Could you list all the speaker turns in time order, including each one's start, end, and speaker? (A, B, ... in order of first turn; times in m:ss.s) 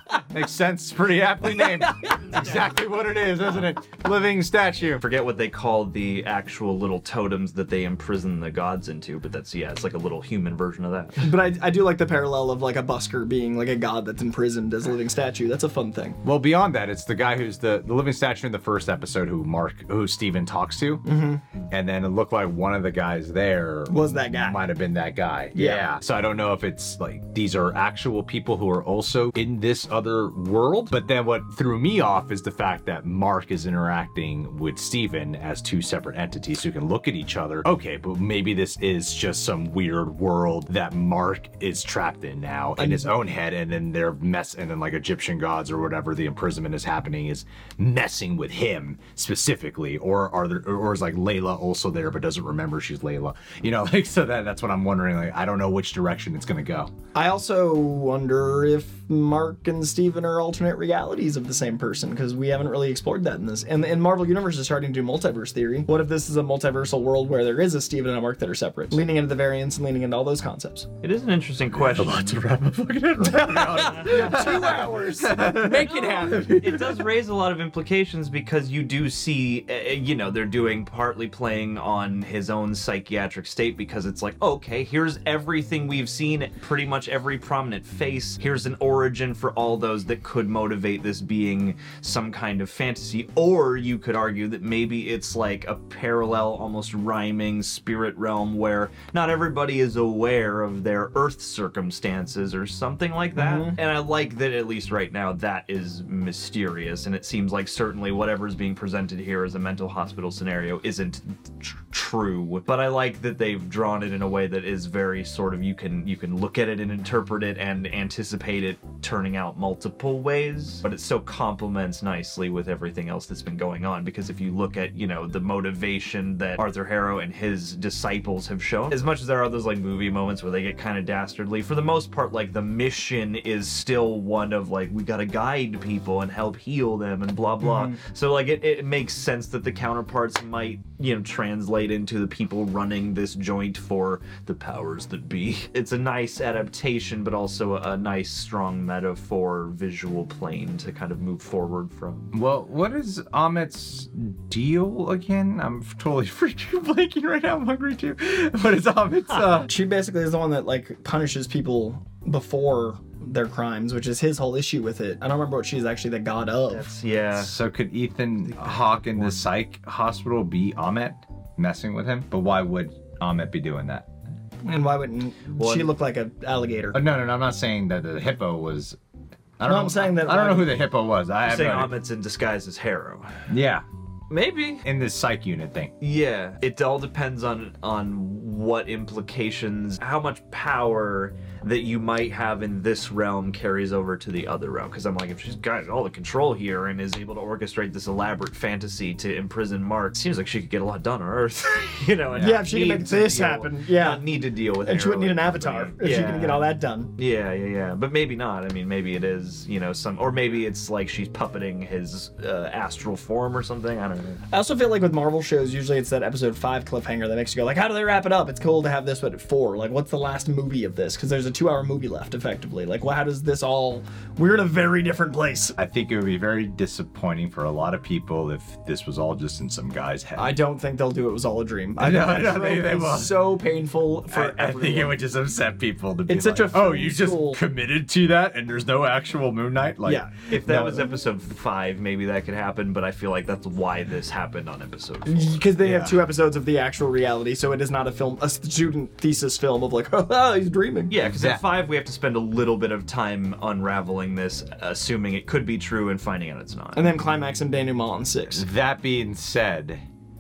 0:00.3-0:05.0 A
0:05.0-0:11.3 B
0:11.2-0:16.2 C
0:16.2-0:21.1 A
0:21.0-0:21.4 C
0:21.7-0:56.9 A
0:23.9-0:24.6 C
0:25.6-0:25.9 C
0:42.8-0:43.1 C
0:57.1-1:10.9 C
1:11.0-1:12.4 B
1:11.7-1:17.1 A
1:13.2-1:16.5 C
1:13.8-1:14.7 B
1:15.9-2:32.3 B
1:43.4-1:43.8 C
2:17.6-2:18.0 C
2:32.3-2:39.7 A
2:39.3-2:39.6 B
2:39.7-2:46.9 C
2:46.7-2:47.5 B
2:47.4-2:54.1 A
2:48.5-2:49.4 B
2:54.6-2:57.0 C
2:55.6-2:55.9 B
2:56.9-2:59.0 A
2:59.6-3:02.0 A
2:59.6-3:00.8 C
3:01.4-3:03.4 B
3:03.5-3:03.8 A
3:04.3-3:04.8 B
3:04.8-3:05.9 A
3:06.0-3:34.4 B
3:22.3-3:22.6 A
3:22.4-3:27.1 C
3:34.5-3:45.8 C
3:45.8-3:50.6 A
3:50.4-3:55.2 C
3:52.0-3:53.5 A
3:54.3-4:00.3 A
3:56.3-3:57.6 C
4:00.0-4:01.1 C
4:00.5-4:05.6 B
4:05.3-4:11.2 C
4:05.8-4:06.2 A
4:11.1-4:17.1 B
4:11.2-4:11.6 A
4:17.0-4:18.6 C
4:18.5-4:20.0 A